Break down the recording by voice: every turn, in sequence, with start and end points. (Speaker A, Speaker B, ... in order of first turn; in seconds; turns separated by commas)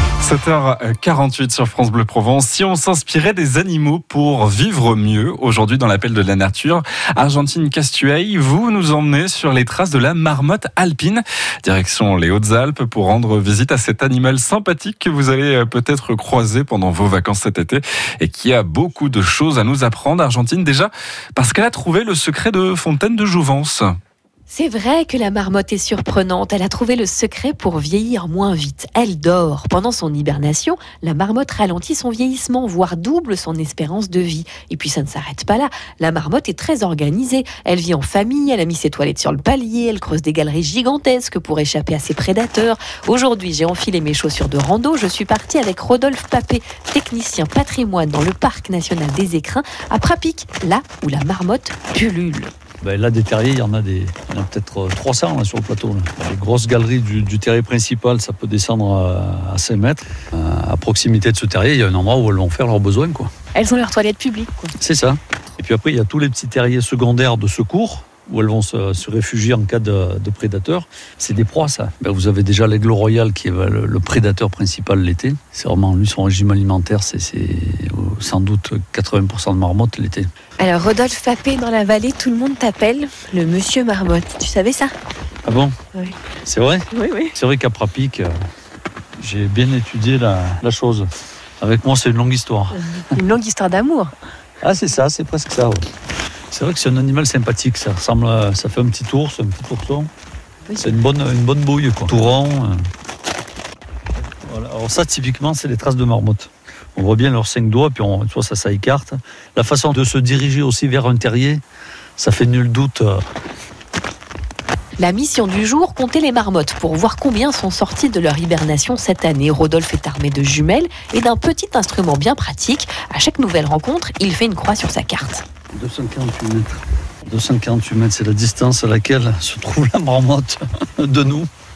Speaker A: 0.2-23.9, Speaker B: 24.5-52.5, Speaker C: 52.8-63.3, Speaker B: 63.5-64.7, Speaker C: 64.8-80.3, Speaker B: 80.6-85.0, Speaker C: 85.5-85.8, Speaker C: 86.4-88.3, Speaker B: 86.9-87.3, Speaker C: 89.2-92.8, Speaker B: 92.9-94.1, Speaker C: 94.6-95.9, Speaker C: 96.5-100.1, Speaker B: 100.7-101.1, Speaker C: 100.8-102.8, Speaker C: 104.4-111.6, Speaker C: 112.2-113.2, Speaker B: 115.0-125.4, Speaker C: 125.7-131.5